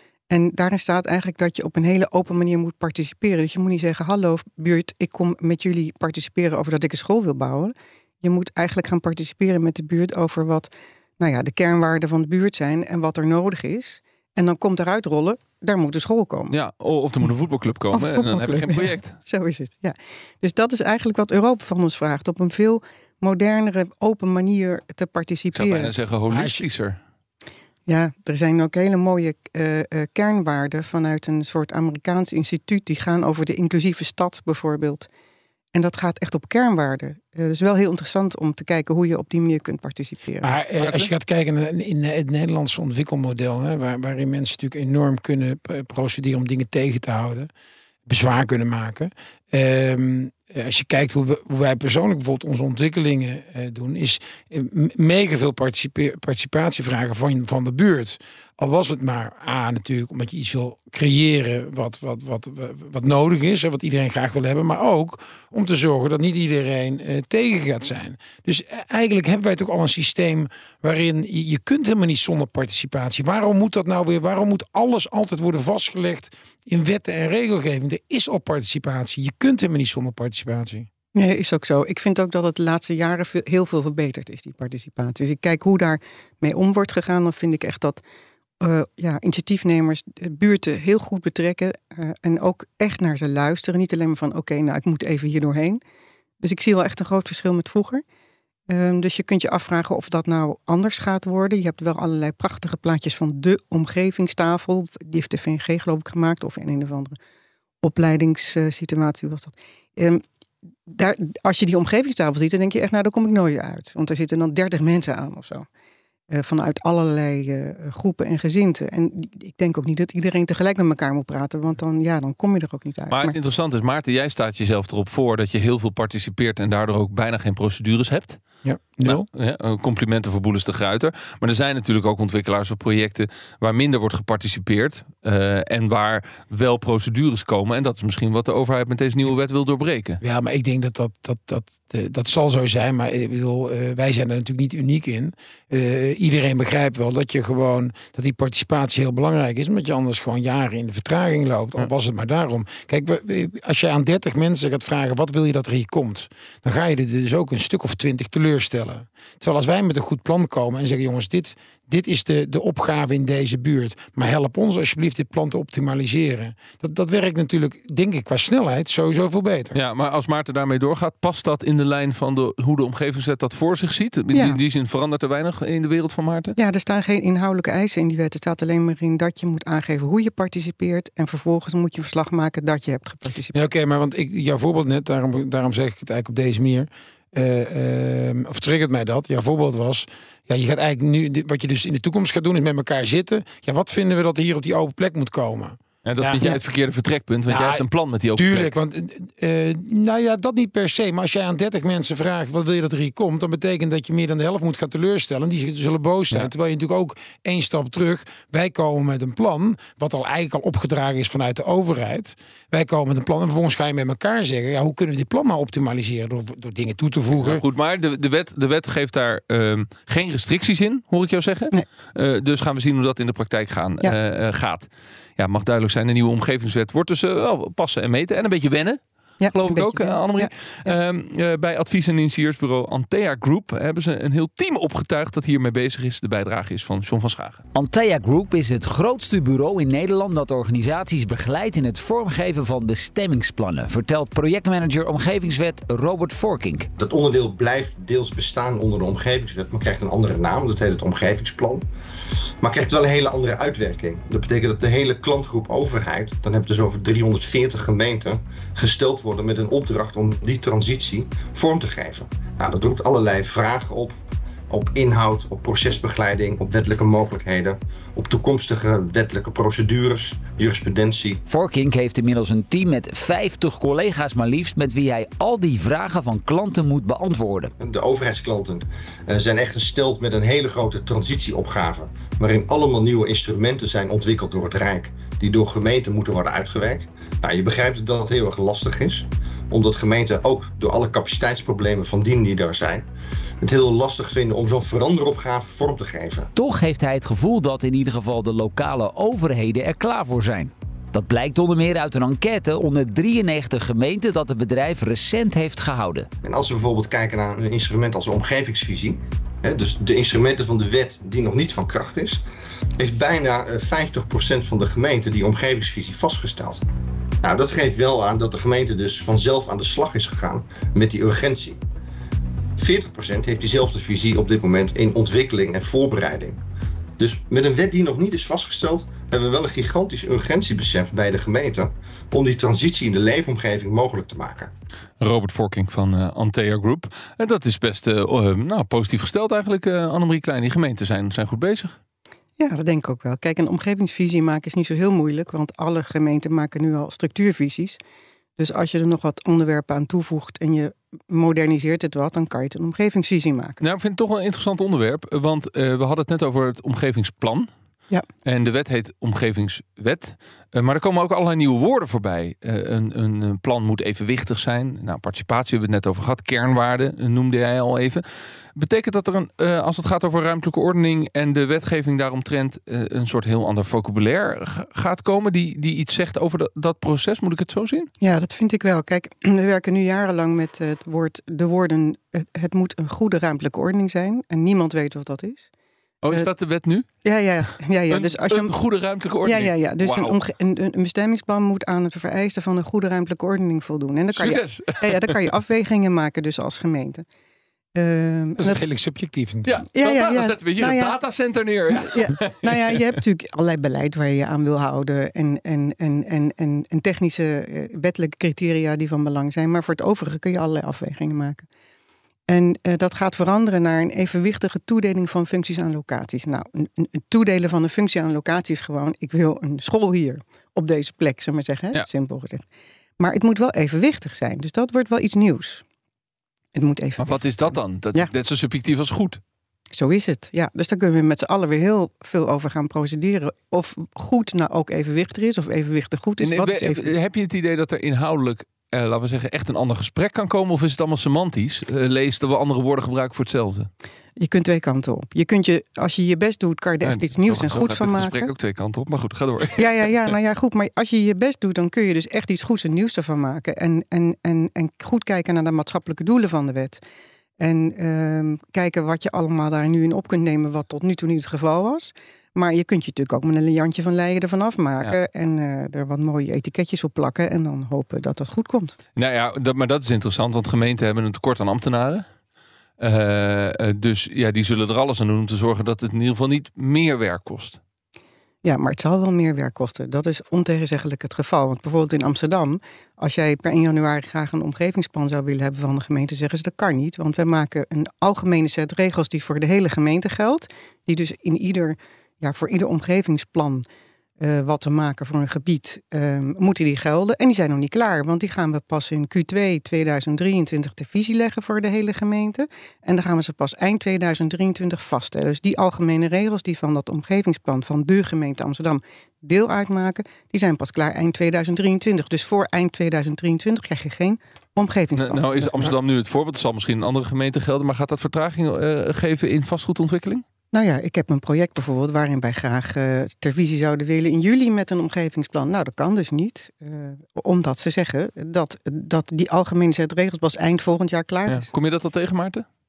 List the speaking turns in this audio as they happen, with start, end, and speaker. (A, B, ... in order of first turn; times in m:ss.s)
0:00.3-0:16.6 A
0:16.5-0:19.2 B
0:17.9-0:25.9 A
0:25.5-0:27.0 B
0:26.3-0:26.6 C
0:27.9-0:35.1 A
0:35.7-0:40.5 A
0:40.4-0:47.5 C
0:40.8-0:41.1 B
0:48.1-1:20.9 C
1:21.2-1:28.0 A
1:28.6-1:35.8 A
1:36.4-1:38.0 A
1:38.7-1:47.2 A
1:47.8-1:50.2 A
1:50.9-1:55.7 A
1:56.3-2:03.4 A
2:03.1-2:08.4 B
2:08.6-2:09.3 C
2:09.0-2:20.2 B
2:20.2-2:49.8 C
2:49.7-2:56.6 B
2:54.3-2:54.6 A
2:56.6-3:03.6 A
3:03.5-3:16.6 C
3:16.0-3:18.7 B
3:17.5-3:17.8 C
3:18.4-3:37.6 C
3:37.4-3:49.0 B
3:49.4-3:51.0 A
3:49.5-3:57.6 B
3:57.7-4:06.9 D
4:07.0-4:11.8 E
4:12.6-4:24.2 E
4:24.7-4:31.4 E
4:31.5-4:37.7 D
4:37.8-4:53.1 E
4:53.6-4:56.5 E
4:56.6-5:06.3 D
5:06.4-5:12.4 E
5:13.0-5:16.8 E
5:17.4-5:21.8 E
5:22.8-5:26.6 E
5:27.2-5:34.7 E
5:35.2-5:42.0 B
5:42.6-5:48.0 A
5:48.6-5:53.8 A
5:53.8-5:57.7 B
5:58.4-6:08.2 B
6:08.8-6:18.1 B
6:18.2-6:25.7 A
6:26.2-6:27.1 B
6:27.2-6:28.7 A
6:28.1-6:30.4 B
6:29.4-6:37.2 A
6:34.3-6:35.4 B
6:38.0-6:38.8 A
6:38.6-6:39.7 C
6:39.6-6:43.0 B
6:39.9-6:41.2 A
6:42.0-6:51.7 A
6:52.5-7:02.6 A
7:03.2-7:05.8 A
7:06.8-7:08.3 A
7:07.2-7:09.4 B
7:09.9-7:17.1 A
7:16.4-7:23.9 B
7:24.4-7:28.5 A
7:27.0-7:30.1 B
7:29.8-7:37.0 A
7:37.6-7:49.0 A
7:49.2-7:52.3 B
7:53.0-7:57.8 B
7:58.6-8:13.8 A
8:14.4-8:35.9 A
8:35.2-8:40.4 B
8:40.7-8:51.7 A
8:51.5-8:52.7 B